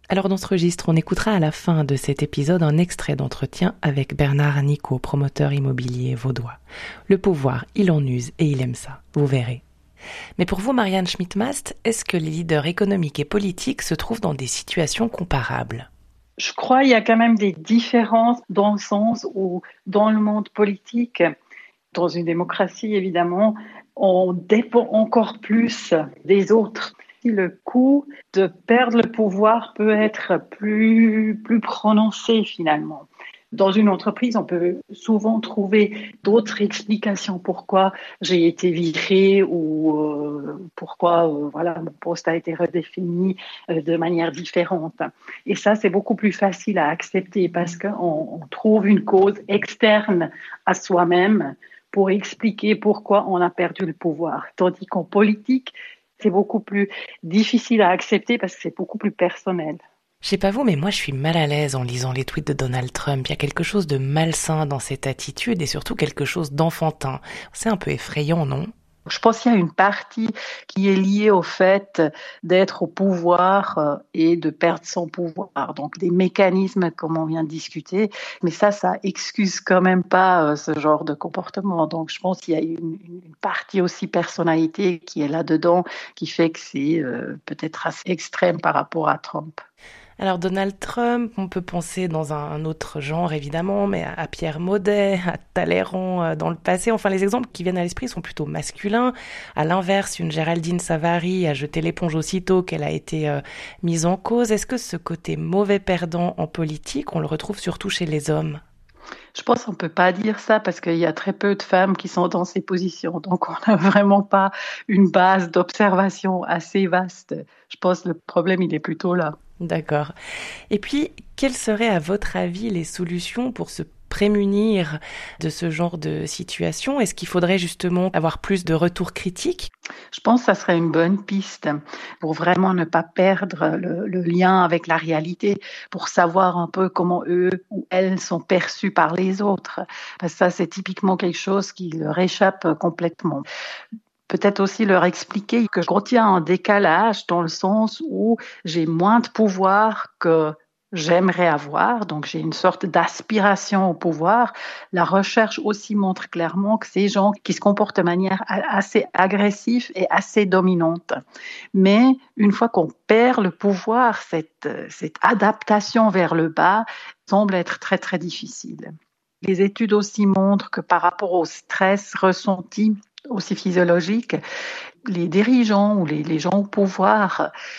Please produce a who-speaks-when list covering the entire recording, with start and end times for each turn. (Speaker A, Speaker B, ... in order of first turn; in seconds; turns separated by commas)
Speaker A: 0.1-9.6, Speaker A: 10.4-15.9, Speaker B: 16.4-21.3, Speaker B: 21.9-59.8, Speaker A: 60.2-68.7, Speaker B: 69.1-89.6, Speaker A: 90.2-108.6, Speaker B: 109.4-119.4, Speaker A: 119.6-120.1, Speaker A: 120.7-129.7, Speaker B: 130.1-143.4, Speaker B: 144.3-161.2, Speaker B: 161.7-168.9, Speaker B: 169.4-174.4, Speaker B: 175.1-177.5